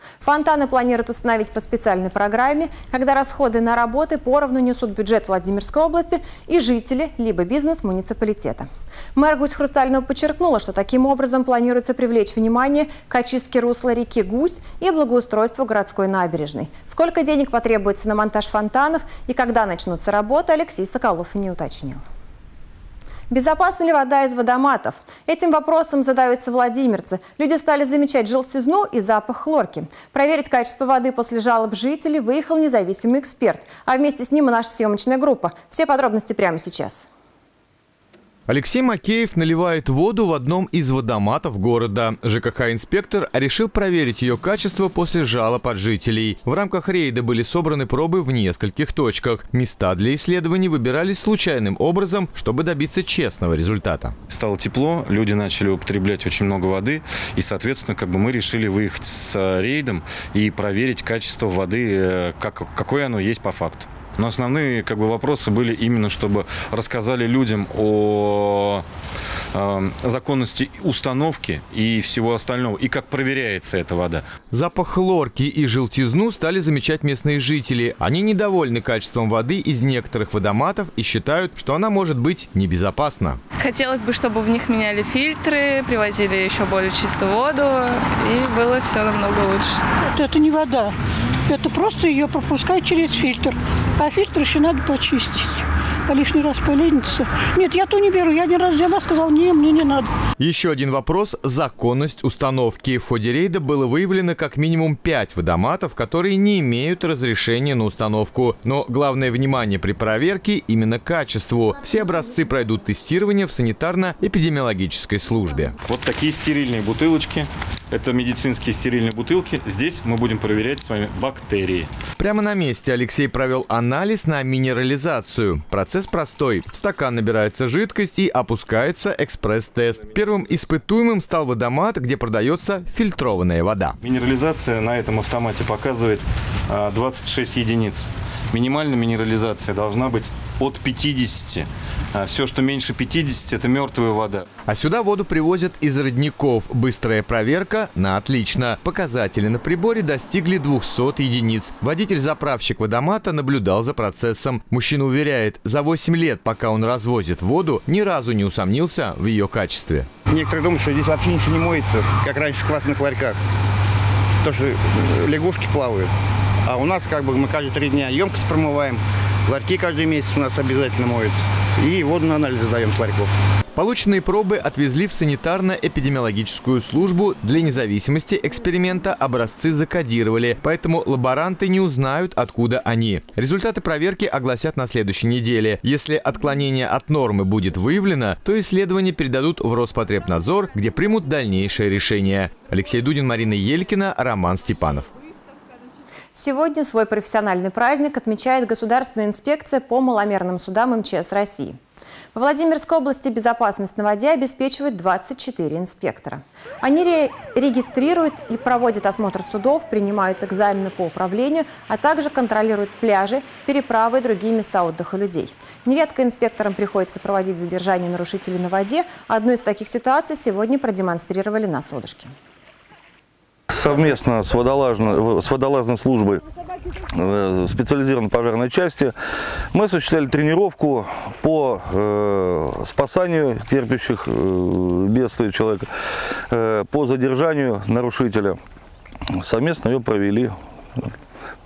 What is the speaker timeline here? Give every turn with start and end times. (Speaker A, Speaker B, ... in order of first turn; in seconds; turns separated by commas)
Speaker A: 0.2-22.0, Speaker A: 23.3-37.1, Speaker B: 38.5-54.1, Speaker C: 54.3-68.8, Speaker C: 69.5-74.2, Speaker B: 74.5-83.4, Speaker D: 83.7-89.7, Speaker E: 90.1-90.9, Speaker E: 91.5-100.1, Speaker B: 100.4-115.7, Speaker C: 115.9-121.8, Speaker B: 122.2-133.9, Speaker C: 134.0-144.4, Speaker B: 144.7-160.1, Speaker F: 160.3-163.3, Speaker F: 164.4-166.1, Speaker F: 166.7-168.9, Speaker F: 169.5-173.3, Speaker B: 173.7-195.1, Speaker A: 196.3-201.8, Speaker A: 202.3-222.3, Speaker G: 223.7-226.4, Speaker G: 227.2-229.1, Speaker G: 229.7-235.9, Speaker G: 236.5-238.6, Speaker G: 239.4-241.1